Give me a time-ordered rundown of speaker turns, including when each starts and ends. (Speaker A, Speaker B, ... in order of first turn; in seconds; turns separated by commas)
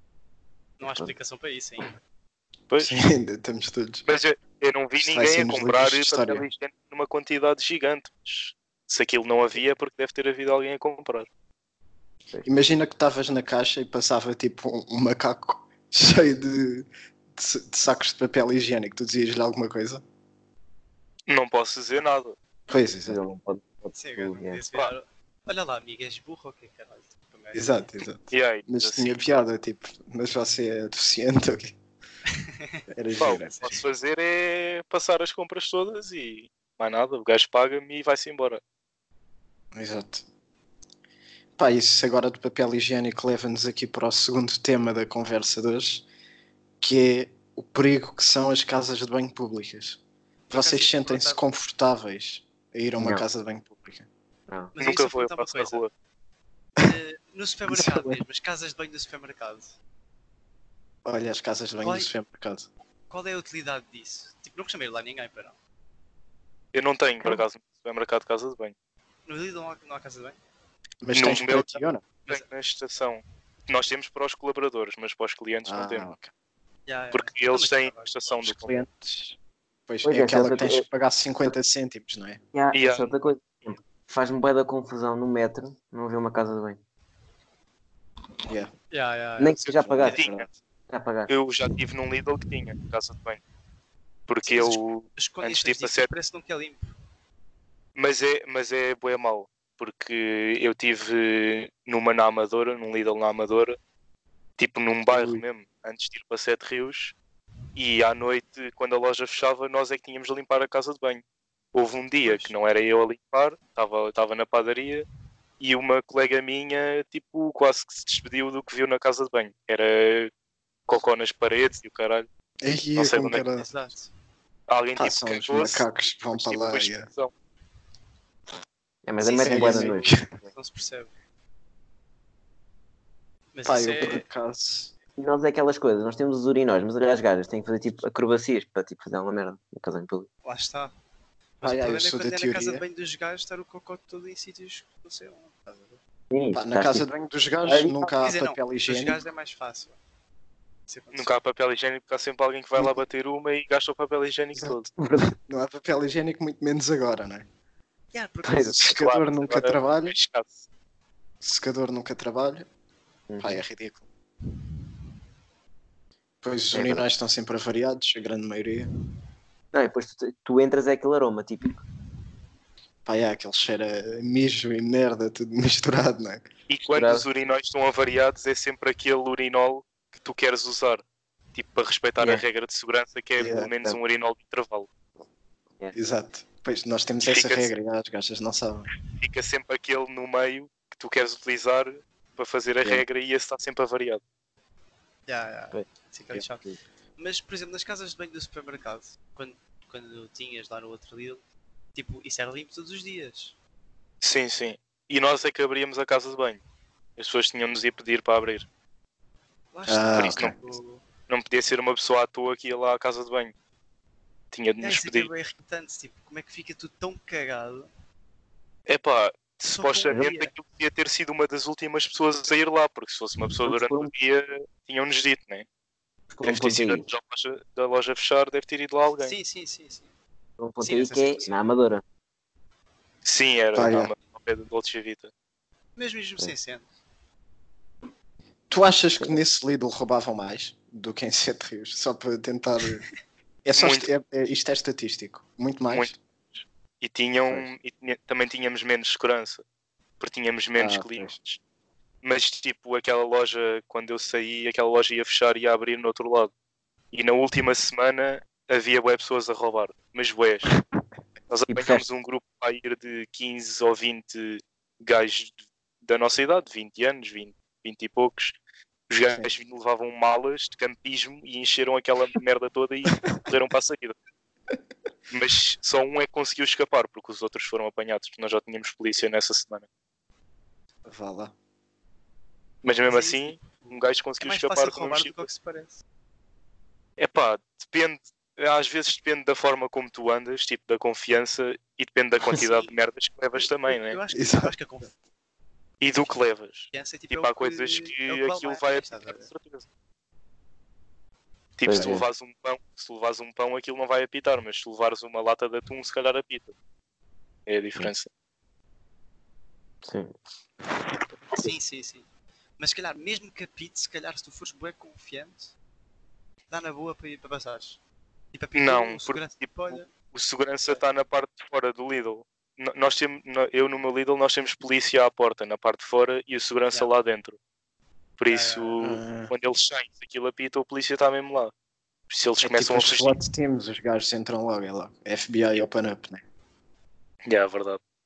Speaker A: 0.8-1.9, Speaker B: 0.8-1.1, Speaker C: 2.7-3.0, Speaker D: 2.8-4.0, Speaker C: 4.0-11.3, Speaker D: 5.0-6.5, Speaker D: 12.4-20.0, Speaker C: 21.3-22.4, Speaker D: 22.7-23.2, Speaker B: 23.1-24.6, Speaker A: 23.9-27.9, Speaker D: 27.5-31.8, Speaker C: 28.3-29.4, Speaker A: 32.4-32.8, Speaker D: 32.9-33.8, Speaker C: 33.2-38.6, Speaker D: 39.7-40.2, Speaker D: 41.6-46.0, Speaker D: 46.8-50.0, Speaker A: 50.5-51.4, Speaker D: 50.5-54.1, Speaker B: 53.0-53.2, Speaker B: 54.5-54.7, Speaker A: 54.7-55.8, Speaker C: 54.8-55.9, Speaker A: 56.8-59.7, Speaker D: 57.7-58.2, Speaker D: 61.0-62.7, Speaker A: 61.8-62.1, Speaker A: 63.1-65.6, Speaker C: 66.7-68.7, Speaker A: 69.2-70.4, Speaker D: 71.0-72.0, Speaker C: 71.1-76.0, Speaker D: 75.6-76.3, Speaker A: 76.8-78.2, Speaker C: 77.1-78.8, Speaker D: 78.4-82.4, Speaker B: 80.0-80.8, Speaker B: 82.5-86.8, Speaker C: 82.7-83.1, Speaker D: 88.5-88.7, Speaker A: 88.9-90.3, Speaker B: 89.4-90.3, Speaker D: 89.7-90.5, Speaker B: 90.9-91.3, Speaker C: 91.3-93.4, Speaker C: 94.3-96.1, Speaker A: 94.5-96.9, Speaker C: 97.9-103.8, Speaker C: 104.6-107.1, Speaker D: 105.1-105.4, Speaker C: 107.7-115.1, Speaker A: 112.2-112.5, Speaker C: 115.6-120.3, Speaker C: 120.9-122.3, Speaker D: 122.6-123.7, Speaker C: 123.0-123.4, Speaker A: 123.5-124.1, Speaker C: 124.7-127.3, Speaker D: 125.0-127.1, Speaker B: 129.0-130.1, Speaker A: 129.2-131.1, Speaker D: 129.4-130.2, Speaker A: 133.5-134.2, Speaker D: 133.6-134.9, Speaker B: 135.2-140.3, Speaker A: 140.4-140.9, Speaker A: 141.6-146.0, Speaker D: 141.6-142.8, Speaker B: 146.3-147.1, Speaker D: 146.5-149.2, Speaker B: 147.6-148.1, Speaker A: 148.2-150.0, Speaker A: 150.9-151.3, Speaker C: 151.1-154.8, Speaker D: 154.5-157.5, Speaker B: 155.0-155.3, Speaker A: 158.1-158.9, Speaker B: 158.4-158.9, Speaker D: 158.7-160.2, Speaker C: 158.9-160.6, Speaker D: 161.4-162.7, Speaker B: 163.3-163.6, Speaker D: 163.4-164.0, Speaker D: 166.4-168.9, Speaker B: 166.7-167.0, Speaker B: 169.7-171.8, Speaker D: 173.1-176.4, Speaker C: 176.7-184.9, Speaker B: 176.9-177.3, Speaker D: 183.4-183.7, Speaker D: 185.9-188.9, Speaker C: 187.2-187.7, Speaker C: 189.1-194.2, Speaker A: 195.3-201.4, Speaker A: 201.9-203.5, Speaker C: 204.2-206.6, Speaker C: 207.2-208.7, Speaker A: 209.7-211.0, Speaker D: 209.9-210.5, Speaker C: 210.1-210.6, Speaker C: 211.3-213.5, Speaker C: 214.5-215.3, Speaker A: 214.8-217.9, Speaker C: 218.8-225.7, Speaker A: 219.7-220.5, Speaker B: 220.1-220.4, Speaker B: 223.6-224.1, Speaker B: 226.3-227.1, Speaker C: 226.4-229.3, Speaker A: 229.2-230.1, Speaker B: 230.6-232.0, Speaker A: 230.8-231.5, Speaker C: 233.2-235.3, Speaker D: 233.7-234.1, Speaker A: 235.9-236.9, Speaker D: 238.7-243.0, Speaker D: 243.6-246.1, Speaker C: 243.8-244.1, Speaker C: 245.9-246.2, Speaker C: 247.0-249.6, Speaker C: 250.2-251.6, Speaker D: 250.8-251.3, Speaker C: 252.2-256.5, Speaker C: 257.1-260.7, Speaker C: 261.5-268.6, Speaker B: 261.7-262.0, Speaker C: 269.1-274.1, Speaker C: 275.3-279.9, Speaker D: 281.1-281.5, Speaker C: 282.8-285.5, Speaker A: 283.1-286.0, Speaker C: 287.2-294.2, Speaker A: 292.5-292.9, Speaker A: 293.9-295.1, Speaker D: 294.3-294.7, Speaker C: 296.0-299.8, Speaker A: 296.9-299.5, Speaker C: 301.8-306.7, Speaker B: 301.9-302.2, Speaker C: 307.7-308.3, Speaker B: 310.0-310.3, Speaker A: 311.5-312.3, Speaker A: 312.8-315.7, Speaker A: 316.7-318.0, Speaker A: 318.5-320.1, Speaker C: 318.7-327.6, Speaker C: 328.4-331.7, Speaker A: 328.5-329.0, Speaker D: 329.0-329.5, Speaker C: 332.3-333.4, Speaker D: 332.6-336.4, Speaker C: 337.4-338.0